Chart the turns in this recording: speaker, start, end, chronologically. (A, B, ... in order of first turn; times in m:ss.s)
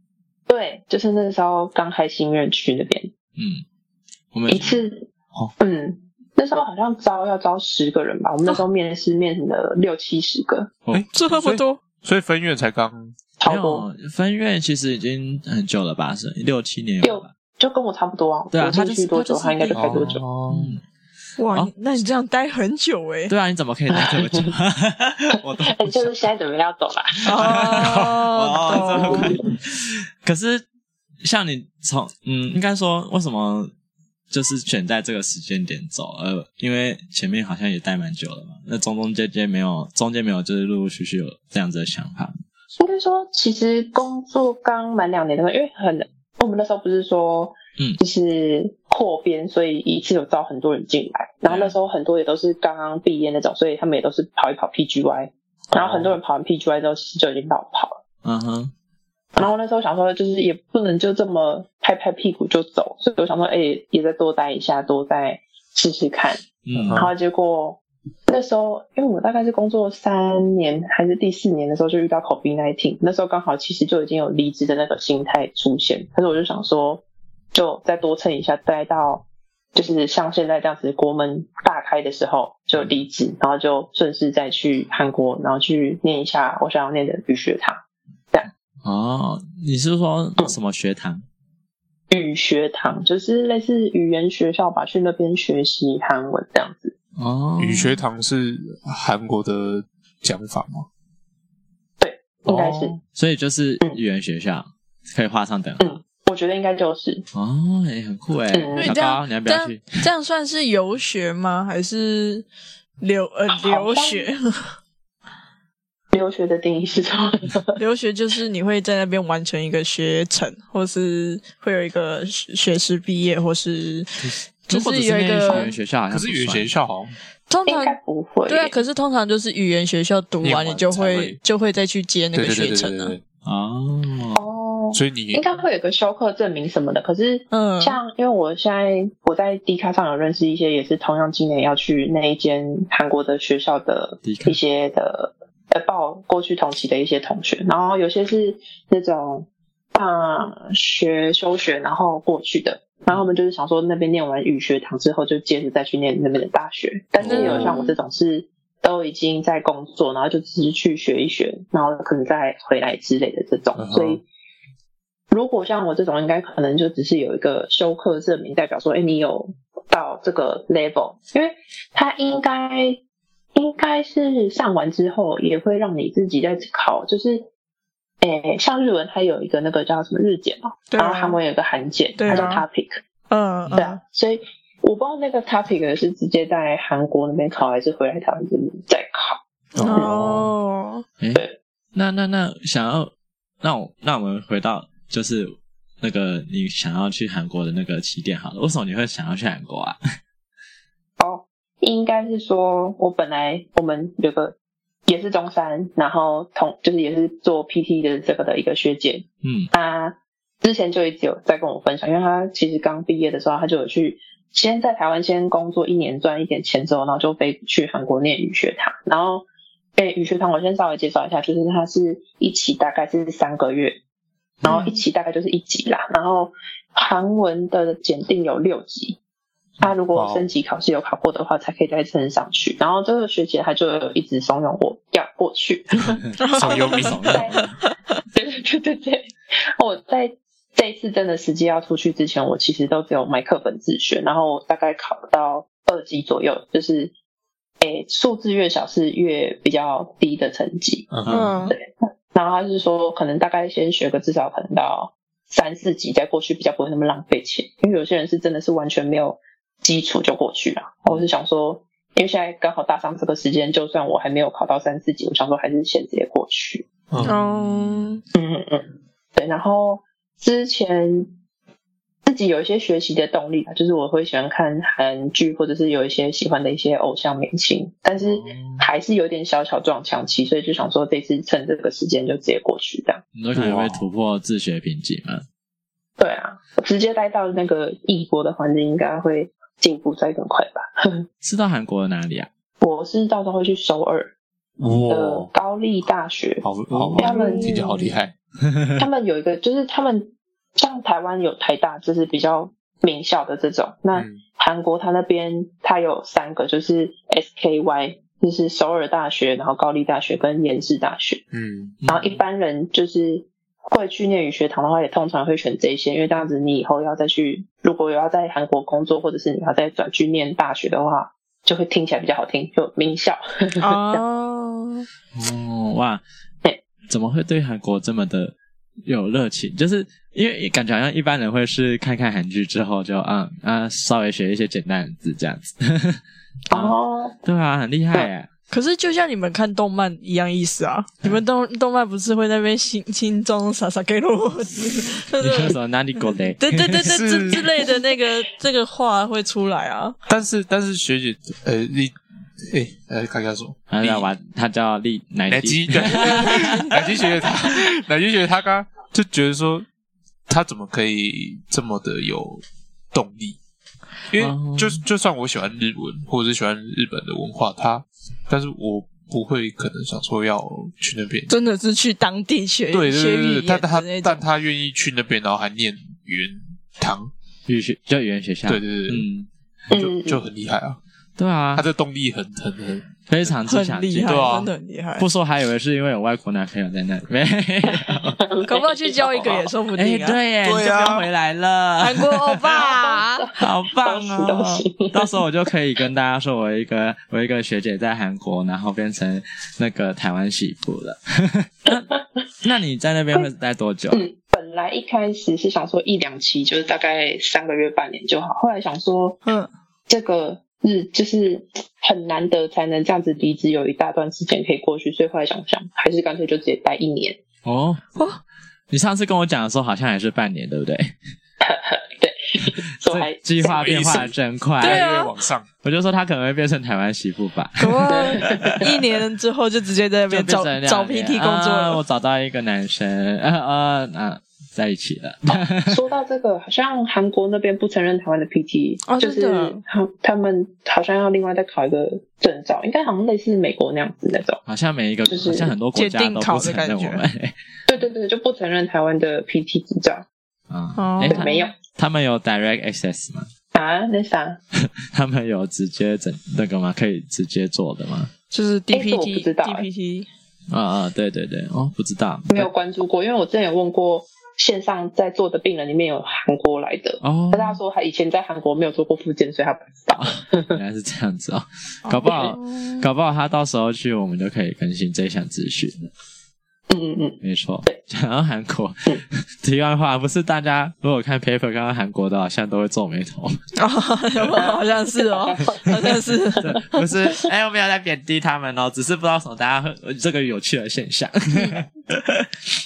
0:00.5-0:03.1 A
0:03.4-0:03.6 B
0:04.3-0:04.8 B
0:04.5-0:05.0 A
0:05.6-0:10.7 A
0:10.9-0:13.1 C
0:11.1-0:11.8 D
0:13.4-0:13.8 A
0:13.5-0:17.3 B
0:17.0-0:20.2 A
0:18.5-0:20.8 B
0:19.7-0:20.8 C
0:21.4-0:23.3 D
0:23.3-0:26.1 B
0:23.9-0:24.5 A
0:25.7-0:27.6 A
0:27.2-0:29.3 D
0:27.4-0:30.6 B
0:29.0-0:29.4 A
0:31.2-0:33.7 B
0:34.3-0:42.3 B
0:42.8-0:58.0 A
0:51.4-0:51.7 B
0:55.7-0:56.1 C
0:58.2-0:58.7 B
0:59.3-1:27.8 A
1:06.6-1:07.1 B
1:06.7-1:07.1 C
1:28.8-1:31.2 B
1:32.1-1:36.9 A
1:37.2-1:38.0 B
1:37.6-1:40.9 C
1:42.0-1:43.0 A
1:42.4-1:43.0 C
1:43.1-1:46.0 B
1:45.8-1:47.2 A
1:47.3-1:50.0 B
1:48.5-1:48.9 A
1:48.8-1:52.4 D
1:53.0-1:54.7 D
1:53.5-1:54.3 A
1:56.1-1:57.8 A
1:57.8-2:05.7 D
2:04.2-2:06.7 B
2:06.1-2:07.1 C
2:07.5-2:08.0 D
2:07.6-2:08.8 A
2:08.5-2:13.1 D
2:10.4-2:11.4 C
2:12.3-2:13.2 C
2:13.4-2:14.4 B
2:14.3-2:44.2 A
2:14.9-2:15.4 C
2:17.5-2:18.0 D
2:24.2-2:24.6 B
2:37.2-2:37.8 C
2:37.2-2:38.0 D
2:43.8-2:44.2 C
2:45.3-2:53.0 A
2:53.5-2:57.5 A
2:58.2-3:03.0 A
3:00.9-3:01.4 D
3:02.2-3:02.6 D
3:03.3-3:04.0 D
3:03.8-3:10.1 A
3:09.8-3:10.5 C
3:09.8-3:11.0 D
3:11.2-3:20.0 B
3:21.2-3:24.5 A
3:25.1-3:44.0 A
3:29.4-3:29.7 B
3:44.6-3:49.2 A
3:49.8-3:56.2 A
3:50.1-3:50.5 C
3:56.4-3:57.2 D
3:56.4-3:57.8 B
3:56.5-3:57.5 C
3:57.3-3:57.6 A
3:58.3-4:07.1 A
4:07.8-4:11.1 A
4:11.1-4:11.5 C
4:11.2-4:11.5 B
4:11.3-4:11.8 D
4:11.7-4:26.8 A
4:27.2-4:28.2 B
4:27.2-4:28.2 D
4:28.3-4:31.3 A
4:32.2-4:43.2 A
4:38.2-4:38.9 B
4:43.3-4:45.4 B
4:43.5-4:44.0 C
4:46.2-4:51.2 A
4:51.4-4:52.5 B
4:52.8-4:54.3 A
4:54.8-4:55.5 C
4:55.0-4:56.6 A
4:56.6-4:58.3 C
4:56.9-4:57.2 B
4:57.2-4:58.0 A
4:57.4-4:57.8 D
4:58.7-4:59.0 B
4:59.0-5:11.4 A
5:04.1-5:04.4 C
5:11.5-5:12.0 C
5:12.0-5:12.4 B
5:12.1-5:24.2 A
5:23.8-5:25.0 D
5:25.3-5:26.2 B
5:27.1-5:28.5 B
5:29.0-5:38.5 B
5:36.7-5:37.4 A
5:38.7-5:45.8 D
5:45.4-5:47.1 B
5:46.6-5:50.2 D
5:47.0-5:47.9 C
5:50.3-5:52.2 C
5:52.7-5:54.3 C
5:53.9-5:56.8 B
5:55.5-5:59.8 C
5:56.1-5:57.3 D
6:00.5-6:03.6 C
6:04.3-6:11.5 C
6:04.4-6:05.0 B
6:11.5-6:14.4 D
6:12.9-6:17.3 C
6:17.7-6:19.5 B
6:18.7-6:19.2 C
6:19.9-6:20.4 A
6:19.9-6:21.0 C
6:21.4-6:21.8 B
6:21.7-6:23.1 C
6:23.3-6:24.5 B
6:23.7-6:25.2 D
6:24.2-6:24.7 C
6:25.2-6:28.4 B
6:28.1-6:29.7 A
6:28.6-6:30.4 D
6:29.9-6:32.7 B
6:30.6-6:31.3 C
6:32.0-6:33.5 D
6:32.7-6:35.3 A
6:33.6-6:42.1 B
6:42.6-6:44.2 B
6:44.1-6:49.4 A
6:50.1-6:57.4 A
6:57.6-6:58.2 B
6:58.9-7:01.1 B
7:01.6-7:04.2 A
7:03.0-7:05.1 B
7:03.6-7:05.6 C
7:04.8-7:05.3 D
7:05.8-7:08.9 B
7:07.8-7:12.0 D
7:08.1-7:08.9 A
7:10.3-7:16.0 B
7:15.5-7:24.6 A
7:19.0-7:19.8 D
7:24.6-7:27.5 B
7:25.3-7:25.7 A
7:25.9-7:27.2 D
7:27.9-7:30.2 A
7:30.7-7:33.5 B
7:31.0-7:31.7 D
7:31.2-7:31.7 A
7:33.7-7:34.6 A
7:34.8-7:38.3 B
7:38.5-7:40.3 D
7:38.9-7:39.9 A
7:40.7-7:42.7 B
7:42.5-7:50.8 A
7:47.2-7:47.8 B
7:50.2-7:56.1 B
7:52.0-7:53.0 D
7:56.9-7:58.0 A
7:57.4-8:03.6 B
8:03.8-8:07.0 D
8:04.5-8:06.6 A
8:06.6-8:12.5 B